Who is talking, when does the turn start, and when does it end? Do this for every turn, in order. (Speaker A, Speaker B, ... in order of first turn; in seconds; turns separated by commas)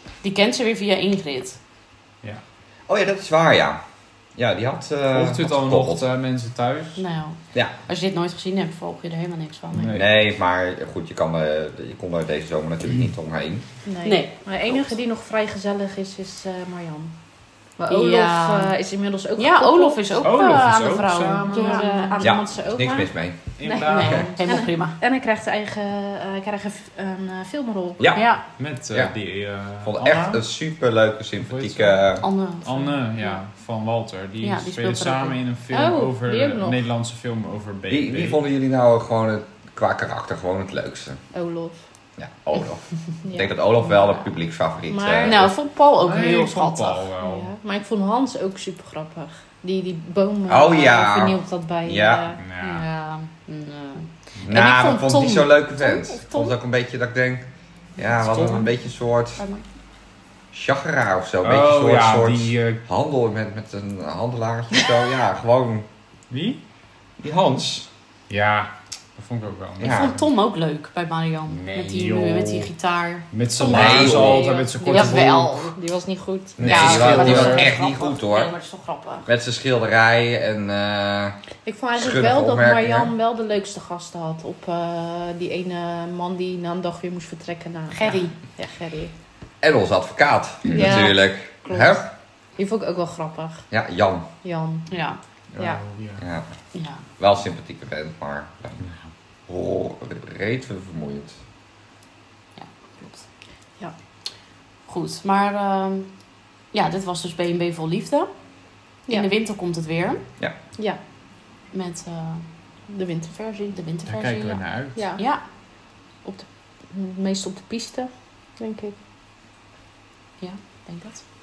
Speaker A: 0.2-1.6, Speaker B: 2.9-3.8, Speaker B: 4.4-6.1, Speaker C: 5.1-7.0, Speaker A: 7.0-10.0, Speaker C: 9.7-10.1, Speaker B: 9.9-13.7, Speaker D: 13.8-17.1, Speaker A: 14.0-14.8, Speaker D: 17.8-20.1, Speaker A: 17.9-18.7, Speaker A: 19.4-22.2, Speaker C: 20.2-22.0, Speaker D: 21.5-23.1, Speaker B: 22.2-23.4, Speaker C: 23.6-24.4, Speaker D: 23.6-28.0, Speaker A: 23.9-25.0, Speaker B: 28.0-28.3, Speaker A: 28.1-28.4, Speaker C: 28.6-30.4, Speaker B: 29.8-32.3, Speaker C: 31.4-38.4, Speaker A: 32.2-32.9, Speaker A: 34.4-35.4, Speaker D: 35.7-36.8, Speaker B: 37.9-41.2, Speaker D: 41.3-41.8, Speaker B: 42.2-45.5, Speaker D: 43.2-43.5, Speaker D: 44.9-45.4, Speaker A: 45.2-47.1, Speaker C: 46.0-47.5, Speaker D: 47.2-52.4, Speaker B: 50.5-52.4, Speaker C: 52.4-52.9, Speaker A: 52.6-56.5, Speaker B: 54.5-59.4, Speaker C: 58.2-58.7, Speaker A: 59.4-59.6, Speaker B: 60.5-65.9, Speaker C: 61.4-62.8, Speaker C: 66.3-66.6, Speaker B: 67.2-67.9, Speaker C: 68.3-70.3, Speaker B: 69.8-70.2, Speaker A: 69.8-75.8, Speaker C: 71.5-72.7, Speaker C: 73.3-75.6, Speaker D: 73.6-77.5, Speaker B: 73.6-74.5, Speaker B: 76.6-78.5, Speaker C: 76.6-77.7, Speaker A: 76.7-79.3, Speaker B: 79.3-81.4, Speaker D: 81.7-89.1, Speaker B: 82.0-83.1, Speaker A: 87.9-88.4, Speaker B: 89.6-92.1, Speaker D: 90.7-92.0, Speaker D: 92.6-93.7, Speaker B: 93.7-94.3, Speaker D: 94.4-94.9, Speaker A: 94.9-95.2, Speaker C: 95.5-96.2, Speaker B: 96.2-96.5, Speaker A: 96.7-97.0, Speaker B: 97.2-98.9, Speaker B: 99.5-101.3, Speaker A: 102.6-103.2, Speaker A: 104.9-106.1, Speaker A: 106.7-108.3, Speaker A: 109.1-110.2, Speaker A: 111.7-112.5, Speaker D: 112.9-113.7, Speaker A: 113.7-114.6, Speaker C: 114.1-115.1, Speaker D: 114.9-115.2, Speaker A: 115.2-115.4, Speaker D: 116.2-119.0, Speaker A: 120.4-121.2